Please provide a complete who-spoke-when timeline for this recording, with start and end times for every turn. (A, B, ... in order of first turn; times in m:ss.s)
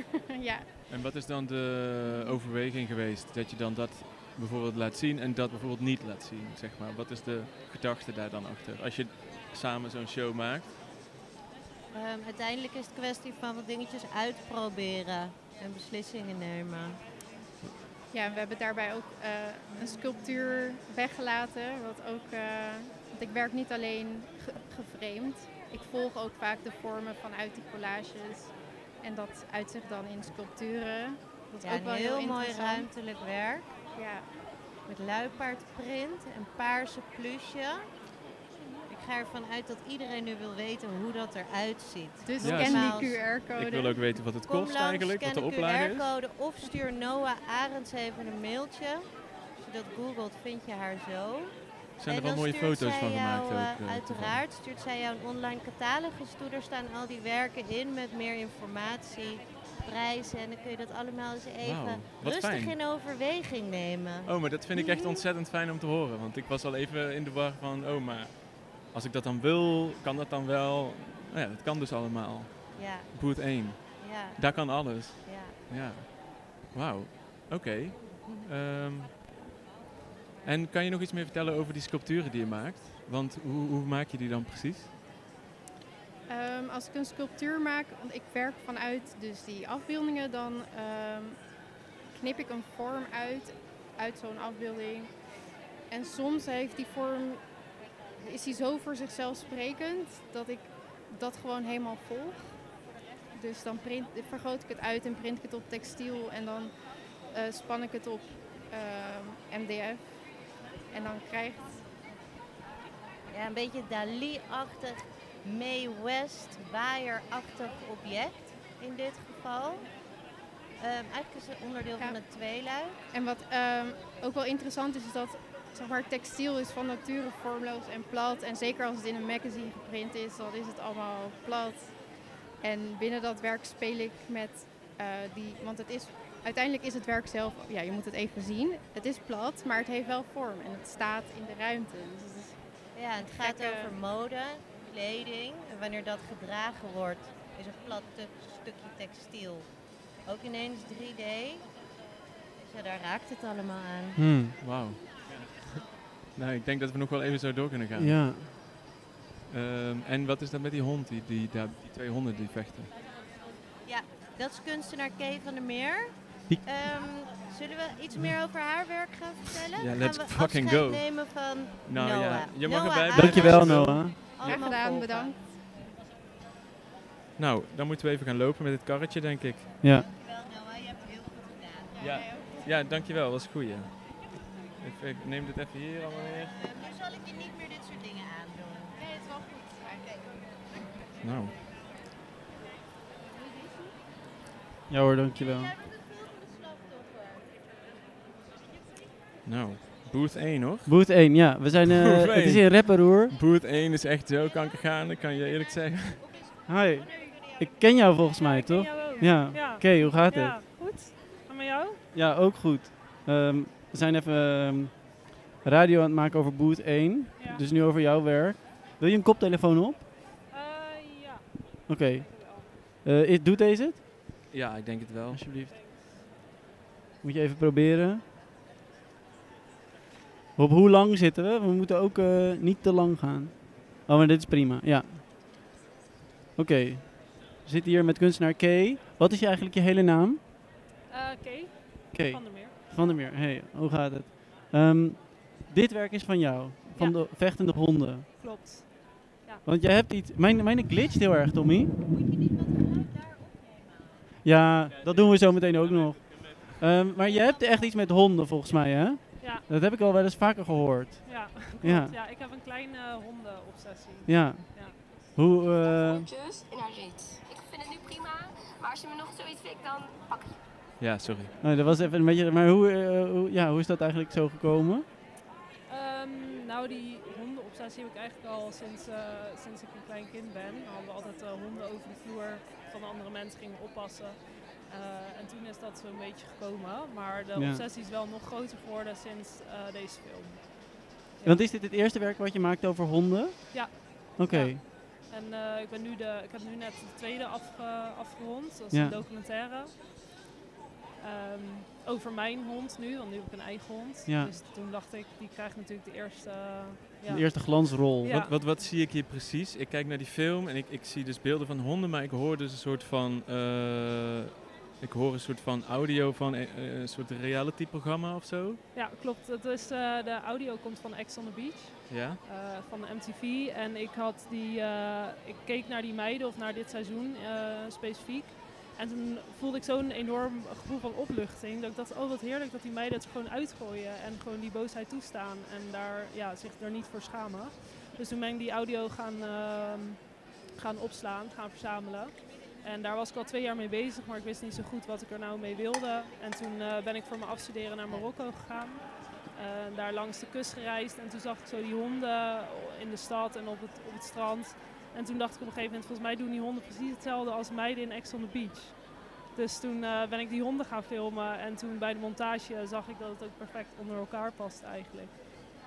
0:00.4-0:00.7 A
0:00.9-0:10.8 B
0:11.9-0:17.0 C
0:18.1-0:32.9 A
0:31.6-0:33.7 C
0:33.9-0:34.3 A
0:34.9-0:37.8 C
0:38.9-0:43.2 C
0:42.2-0:44.1 A
0:42.4-0:46.1 B
0:44.4-0:51.5 C
0:52.0-0:54.4 B
0:52.1-1:04.4 C
1:01.6-1:02.8 B
1:04.2-1:19.2 B
1:04.8-1:05.1 A
1:12.8-1:13.1 C
1:13.9-1:15.6 C
1:18.2-1:18.5 C
1:20.4-1:24.9 B
1:26.3-1:31.4 A
1:32.1-1:35.1 A
1:35.9-1:37.4 A
1:38.2-1:42.7 A
1:43.3-1:46.8 A
1:47.3-1:50.2 A
1:50.9-1:51.9 A
1:53.3-2:00.1 C
2:00.8-2:03.0 C
2:03.1-2:12.0 A
2:12.6-2:22.6 A
2:22.9-2:29.7 C
2:23.2-2:24.0 A
2:30.2-2:31.7 C
2:32.6-2:34.2 C
2:34.2-2:34.6 D
2:34.6-2:38.2 B
2:38.0-2:38.5 D
2:39.5-2:42.9 B
2:43.8-2:55.3 C
2:49.8-2:54.3 B
2:53.1-2:54.2 D
2:54.4-2:55.5 A
2:57.4-2:59.7 B
2:59.8-3:00.1 D
3:00.1-3:02.0 C
3:02.0-3:02.6 A
3:02.0-3:06.6 B
3:06.6-3:09.0 C
3:09.0-3:10.3 A
3:11.2-3:11.6 B
3:14.9-3:15.7 D
3:15.9-3:17.2 C
3:19.4-3:21.0 B
3:20.9-3:23.4 D
3:21.9-3:26.2 B
3:26.7-3:30.6 D
3:27.2-3:27.4 C
3:28.4-3:32.0 E
3:32.1-3:40.1 D
3:37.4-3:37.6 E
3:40.5-3:42.8 E
3:41.9-3:44.0 D
3:44.5-3:45.4 B
3:45.3-3:45.8 D
3:45.6-3:46.2 E
3:47.2-3:48.2 D
3:50.6-3:55.2 D
3:56.6-4:00.4 D
4:01.1-4:02.8 E
4:02.1-4:08.3 D
4:08.4-4:09.6 E
4:09.6-4:12.0 D
4:14.4-4:22.2 D
4:19.4-4:19.6 E
4:21.2-4:25.0 E
4:24.3-4:26.3 D
4:25.8-4:30.6 F
4:31.0-4:31.6 B
4:31.6-4:35.1 D
4:35.9-4:51.6 E
4:47.6-4:47.8 D
4:51.4-4:54.8 D
4:53.7-5:00.0 E
4:58.9-4:59.3 D
5:01.2-5:08.7 E
5:04.3-5:04.6 D
5:07.3-5:08.3 D
5:08.3-5:18.8 B
5:18.9-6:05.4 E
5:22.1-5:22.4 B